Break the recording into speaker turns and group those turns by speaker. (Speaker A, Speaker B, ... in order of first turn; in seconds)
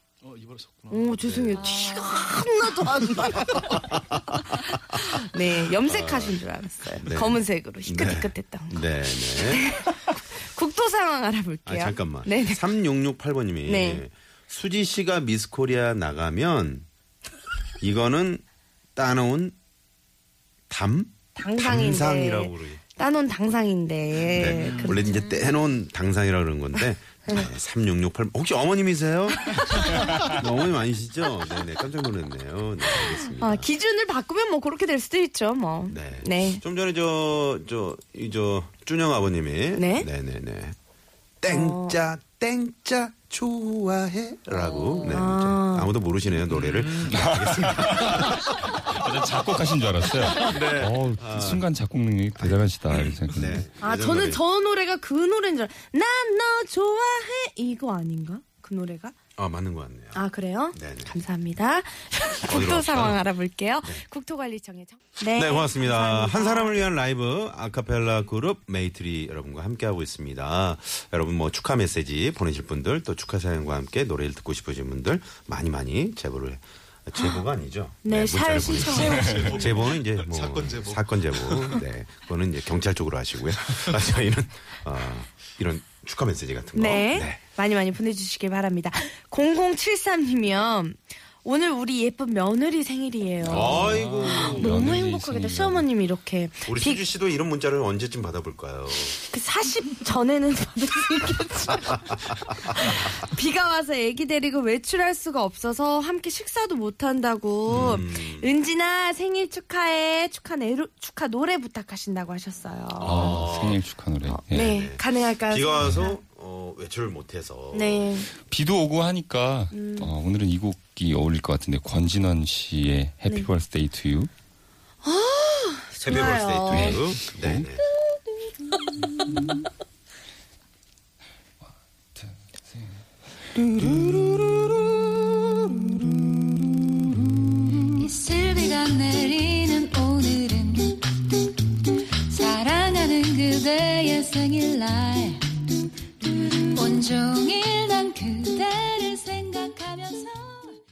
Speaker A: 0.2-1.2, 78.8-81.8
Speaker B: 0.9-3.9, 4.5-12.7, 13.7-14.0, 21.4-25.2, 29.5-29.8, 33.3-36.6, 39.8-40.1, 41.5-42.0, 45.0-45.9, 53.8-59.1, 60.1-66.8, 78.0-79.5, 86.8-97.0, 99.3-102.1, 102.7-113.5, 114.2-116.2, 117.7-118.3, 119.7-120.1, 125.0-127.0, 128.7-129.2
Speaker C: 1.2-1.6, 3.5-4.2, 5.8-6.4, 7.0-9.7, 11.7-16.9, 17.8-18.4, 19.0-19.6, 20.7-22.8, 24.3-33.7, 35.9-40.8, 41.4-49.3, 50.3-51.6, 52.4-54.4, 59.4-60.2, 60.7-61.1, 62.5-63.2, 65.3-87.4, 93.5-94.9, 96.7-99.2, 102.7-103.0, 107.7-108.5, 113.0-113.8, 114.5-118.2, 126.0-127.8
Speaker D: 1.6-2.2, 44.5-45.2, 137.9-141.2, 142.3-145.6, 146.2-150.8
Speaker E: 47.1-53.6, 93.4-95.9, 113.0-114.8, 118.4-124.3, 126.7-127.7, 132.2-132.8